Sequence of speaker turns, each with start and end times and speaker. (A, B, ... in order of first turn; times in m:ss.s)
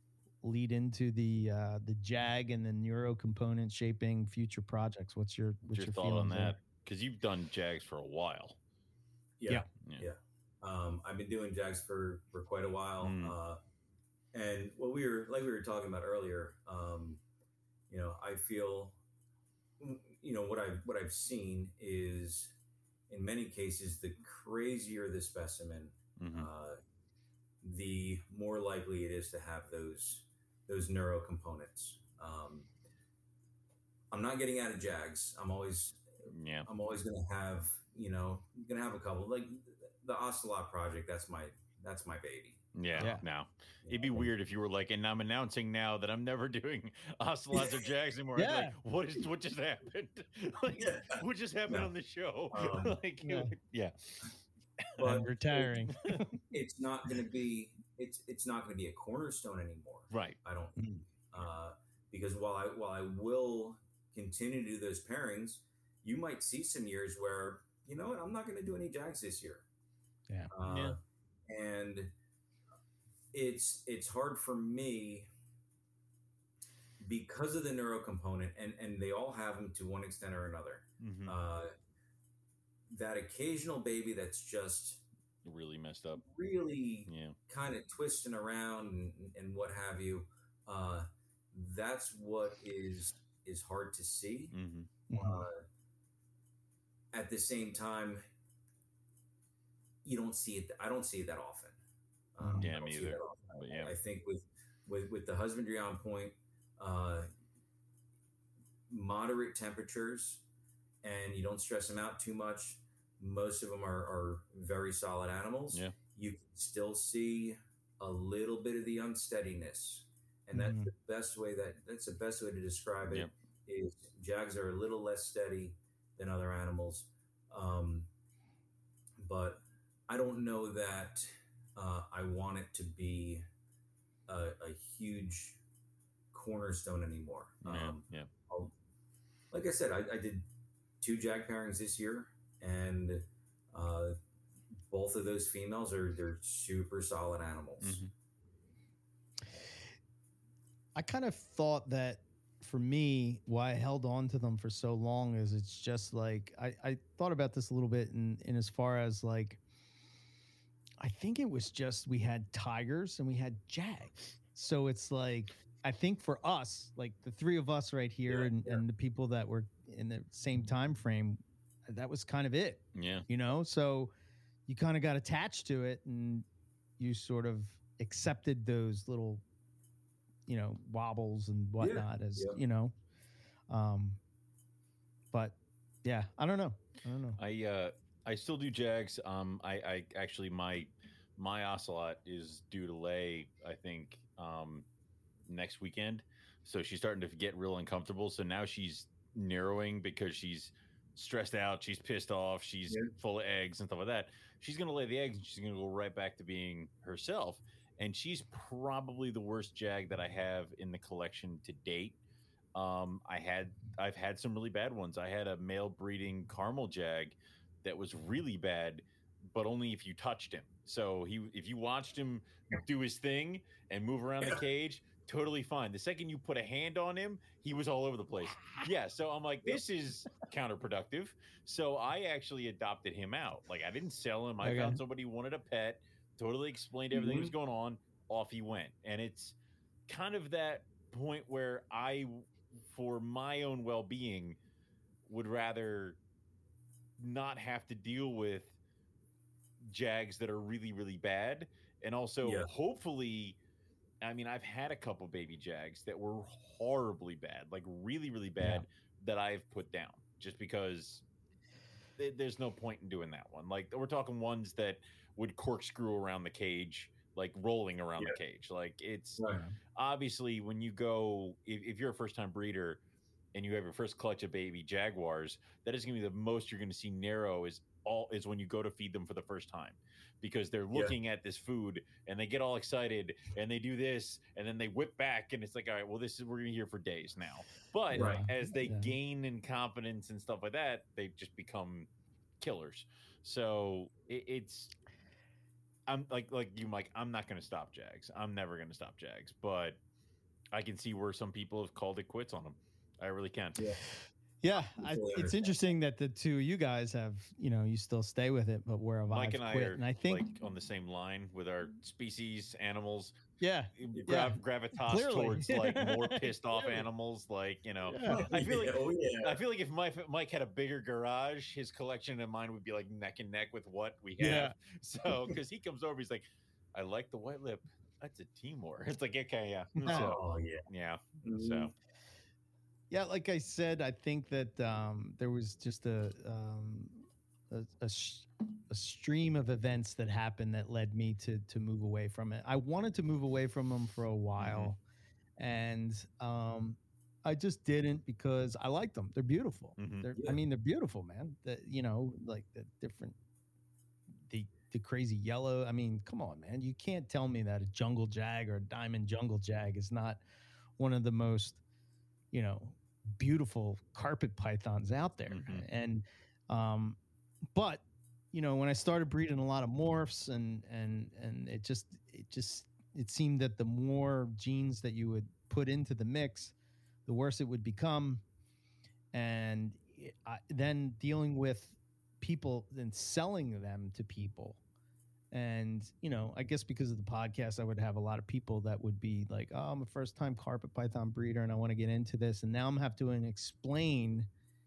0:00.4-0:06.6 A
0:05.7-0:08.6 B
0:09.4-0:13.6 C
0:13.0-0:13.4 B
0:14.3-0:17.2 C
0:17.9-0:19.0 C
0:19.8-0:22.5 C
0:23.1-0:26.8 C
0:26.2-0:26.5 B
0:27.6-0:32.7 C
0:34.1-0:36.1 C
0:36.3-0:36.7 B
0:36.7-0:43.2 C
0:42.8-0:54.3 B
0:43.0-0:43.2 A
0:43.8-0:44.3 C
0:48.4-0:48.8 A
0:50.8-0:51.9 C
0:52.5-0:53.0 C
0:53.2-0:53.5 A
0:55.0-0:56.0 C
0:55.0-0:56.4 A
0:56.5-1:09.6 C
1:00.1-1:00.4 B
1:00.8-1:01.0 A
1:10.5-1:12.1 C
1:10.6-1:11.0 B
1:13.3-1:15.3 C
1:17.0-1:21.7 C
1:21.0-1:21.4 B
1:22.9-1:25.0 C
1:25.4-1:26.2 B
1:26.2-1:34.5 C
1:27.1-1:27.4 B
1:34.5-1:34.9 B
1:35.1-1:35.5 A
1:35.2-1:35.6 C
1:37.1-1:38.2 C
1:40.0-1:41.8 C
1:42.4-1:47.3 C
1:42.4-1:42.7 A
1:42.6-1:43.9 B
1:48.9-1:50.4 C
1:51.0-2:08.1 C
2:00.5-2:00.9 A
2:09.2-2:13.4 C
2:14.3-2:15.6 C
2:16.3-2:18.7 C
2:17.6-2:18.3 B
2:19.5-2:20.4 C
2:21.0-2:24.2 C
2:24.9-2:28.0 C
2:27.8-2:28.1 B
2:31.0-2:39.6 A
2:41.0-2:54.1 A
2:48.3-2:48.8 C
2:52.9-2:53.3 B
2:54.7-2:56.4 A
2:57.0-2:59.4 A
3:00.5-3:02.9 A
3:01.8-3:02.6 C
3:03.7-3:04.2 A
3:05.3-3:07.4 A
3:07.4-3:14.9 B
3:15.5-3:32.2 B
3:32.8-3:59.6 B
3:54.6-3:55.0 A
3:57.1-3:57.5 C
4:00.1-4:04.6 B
4:05.3-4:06.2 B
4:07.2-4:08.7 B
4:09.8-4:13.6 B
4:12.4-4:12.7 C
4:14.2-4:21.2 B
4:18.6-4:18.8 A
4:22.2-4:33.0 B
4:33.5-4:52.1 B
4:48.1-4:49.1 A
4:48.2-4:48.4 C
4:52.6-4:54.9 B
4:56.1-5:00.0 B
5:00.7-5:03.9 B
5:03.8-5:04.0 C
5:04.6-5:10.5 A
5:05.0-5:05.8 C
5:09.3-5:13.4 B
5:13.6-5:17.0 A
5:14.0-5:31.9 B
5:14.1-5:14.4 C
5:18.1-5:18.5 A
5:18.3-5:19.6 C
5:24.4-5:24.8 A
5:30.0-5:30.3 A
5:30.0-5:30.9 C
5:31.4-5:31.9 C
5:33.1-5:45.0 A
5:44.6-5:44.9 B
5:45.6-5:53.4 A
5:50.0-5:50.3 B
5:54.5-6:00.4 A
6:01.0-6:01.8 A
6:02.5-6:07.2 A
6:05.5-6:05.9 B
6:07.8-6:16.8 A
6:17.3-6:18.4 A
6:19.3-6:24.8 A
6:25.5-6:34.5 A